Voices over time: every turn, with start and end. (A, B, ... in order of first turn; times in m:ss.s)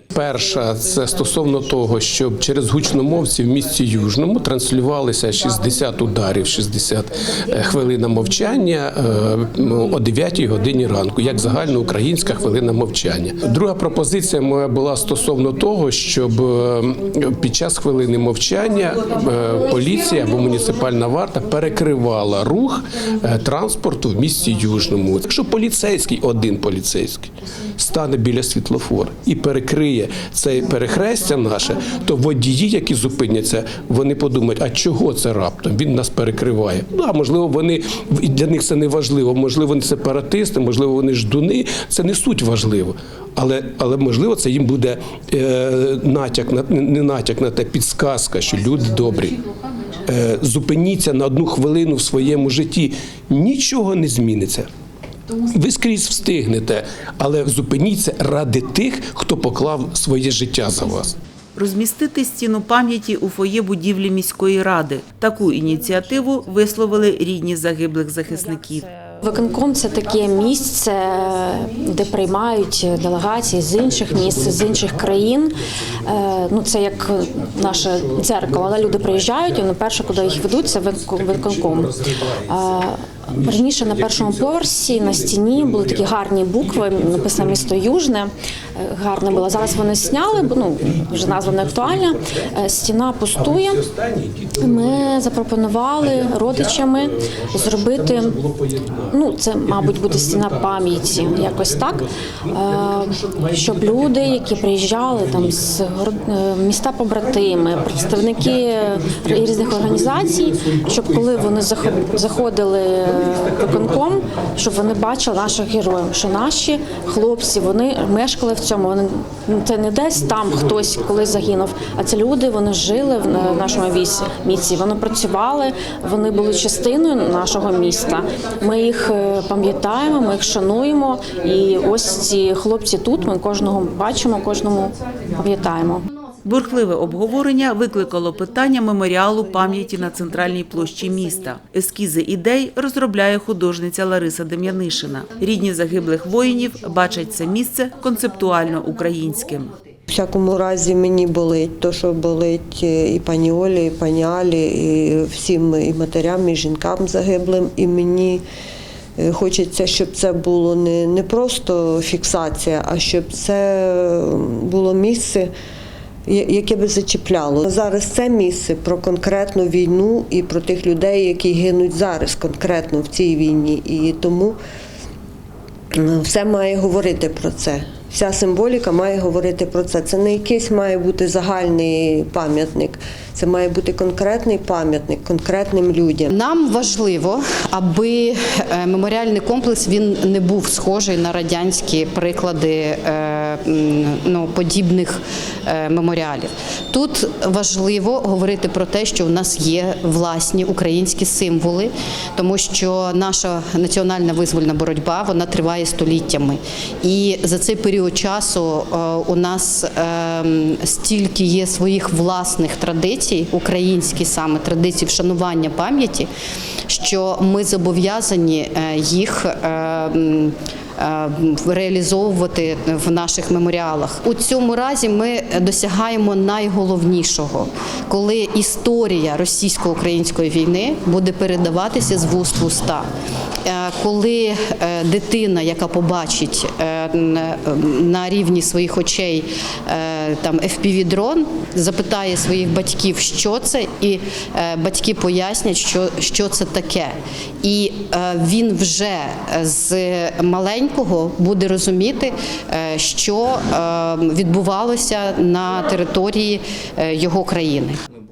0:00.1-0:49.4 A
0:50.1-0:54.7 A
0:55.5-1:01.1 A
1:01.5-1:08.9 B
1:09.2-1:33.8 C
1:13.8-1:15.4 A
1:16.0-1:16.3 A
1:17.4-1:27.9 A
1:29.1-1:35.5 A
1:34.5-1:38.4 C
1:36.0-1:45.9 A
1:39.1-2:16.0 C
1:47.2-1:55.1 A
2:00.2-2:01.6 A
2:16.4-2:29.7 B
2:30.1-2:38.4 D
2:39.2-2:45.5 D
2:46.3-2:54.6 D
2:55.9-3:06.3 D
3:06.3-3:36.3 E
3:36.9-3:53.1 E
3:53.6-4:18.0 E